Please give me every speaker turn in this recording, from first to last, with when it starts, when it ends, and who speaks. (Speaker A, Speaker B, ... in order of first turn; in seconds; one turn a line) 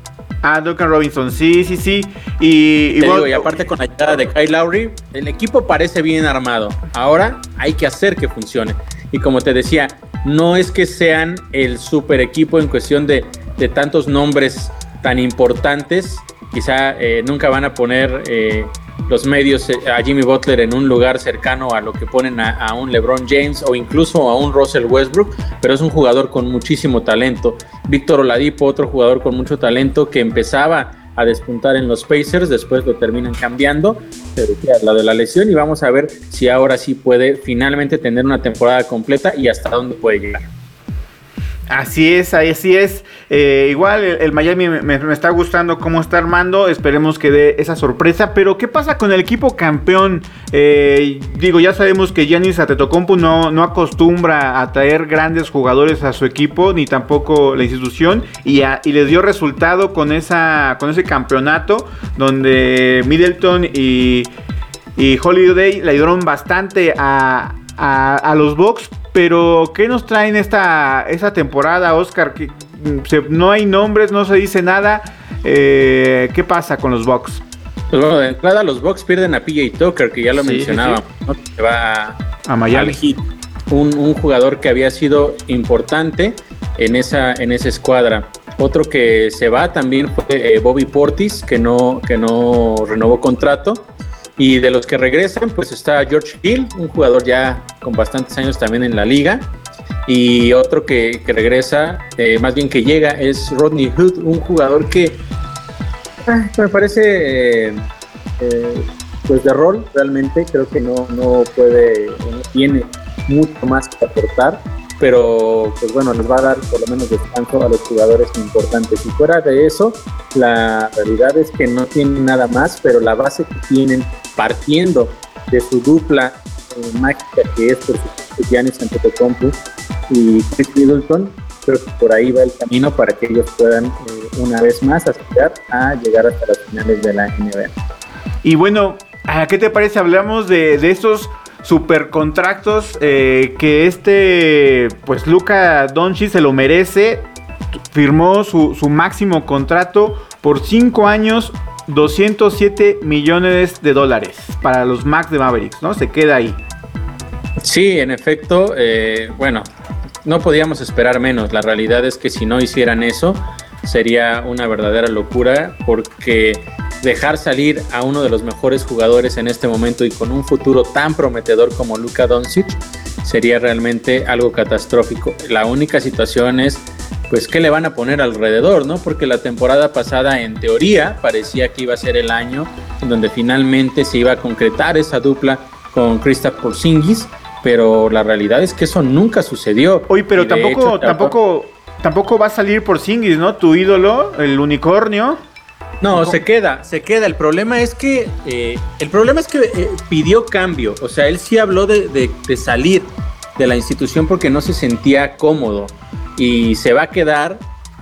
Speaker A: 0.4-3.5
Speaker B: 3.0-40.5
Speaker A: 41.7-64.3
Speaker A: 65.0-77.4
Speaker B: 77.9-93.8
Speaker A: 80.3-81.0
Speaker A: 82.5-83.0
Speaker B: 94.4-99.5
Speaker B: 100.1-105.2
Speaker B: 106.2-107.8
Speaker B: 108.4-129.6
Speaker B: 130.1-137.7
Speaker A: 138.4-147.2
Speaker A: 147.9-156.6
Speaker B: 157.6-159.7
Speaker B: 160.2-191.4
Speaker A: 190.1-195.4
Speaker B: 196.0-207.6
Speaker A: 196.1-196.4